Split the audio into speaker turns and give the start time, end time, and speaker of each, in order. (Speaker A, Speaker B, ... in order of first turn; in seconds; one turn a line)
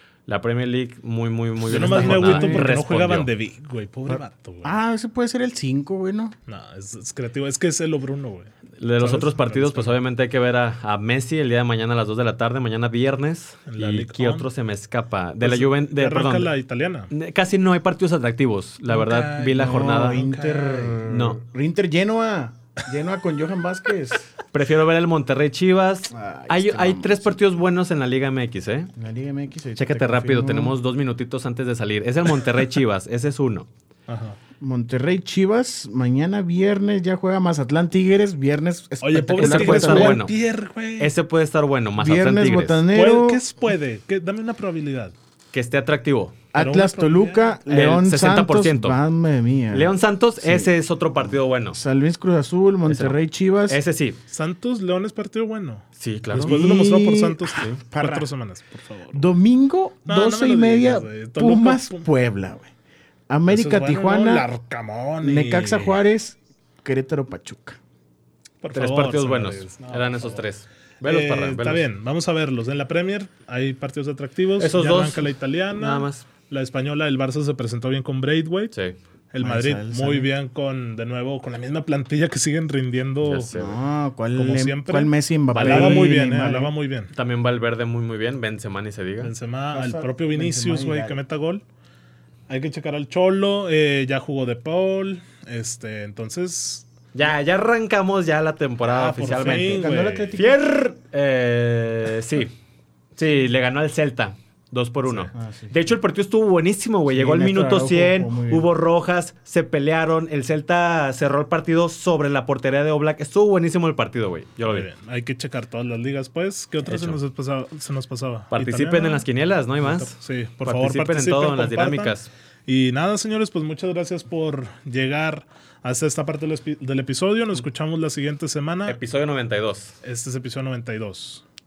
Speaker A: 0.3-3.3
Speaker B: 1.7-4.8
Speaker C: 1.7-2.7
Speaker C: 4.1-6.3
Speaker B: 6.5-10.0
Speaker A: 8.8-16.5
Speaker B: 13.7-14.5
Speaker B: 15.4-17.1
Speaker A: 17.1-20.3
Speaker B: 18.9-21.1
Speaker C: 19.5-24.3
Speaker A: 21.1-21.4
Speaker A: 24.5-28.9
Speaker C: 26.1-27.5
Speaker C: 28.9-30.8
Speaker A: 29.8-33.7
Speaker B: 34.1-34.4
Speaker C: 34.6-40.2
Speaker B: 39.0-41.1
Speaker A: 39.4-40.4
Speaker A: 41.0-42.8
Speaker C: 42.0-43.4
Speaker B: 42.9-45.1
Speaker A: 45.5-46.4
Speaker C: 46.5-50.7
Speaker B: 46.5-47.6
Speaker A: 47.7-49.0
Speaker A: 49.7-51.8
Speaker C: 51.7-53.8
Speaker A: 52.9-54.2
Speaker B: 54.3-59.3
Speaker A: 56.0-56.9
Speaker C: 56.3-58.3
Speaker C: 59.1-62.7
Speaker B: 60.0-62.1
Speaker C: 63.3-64.5
Speaker B: 63.5-66.0
Speaker C: 65.2-67.8
Speaker B: 68.6-70.5
Speaker A: 68.7-71.8
Speaker B: 71.0-78.8
Speaker A: 74.6-76.3
Speaker B: 79.3-83.5
Speaker C: 79.4-80.3
Speaker A: 83.2-83.8
Speaker C: 83.5-86.7
Speaker B: 84.3-87.1
Speaker A: 85.5-86.1
Speaker A: 87.1-89.3
Speaker B: 89.2-91.6
Speaker C: 89.7-91.2
Speaker B: 92.5-96.9
Speaker A: 97.1-102.5
Speaker B: 98.8-100.4
Speaker C: 99.4-100.6
Speaker A: 103.2-114.9
Speaker C: 105.3-105.8
Speaker C: 107.1-108.7
Speaker B: 114.7-119.2
Speaker A: 116.8-117.2
Speaker A: 118.5-120.1
Speaker B: 119.8-122.2
Speaker A: 120.7-122.3
Speaker B: 122.7-129.0
Speaker A: 128.9-130.0
Speaker B: 130.0-131.4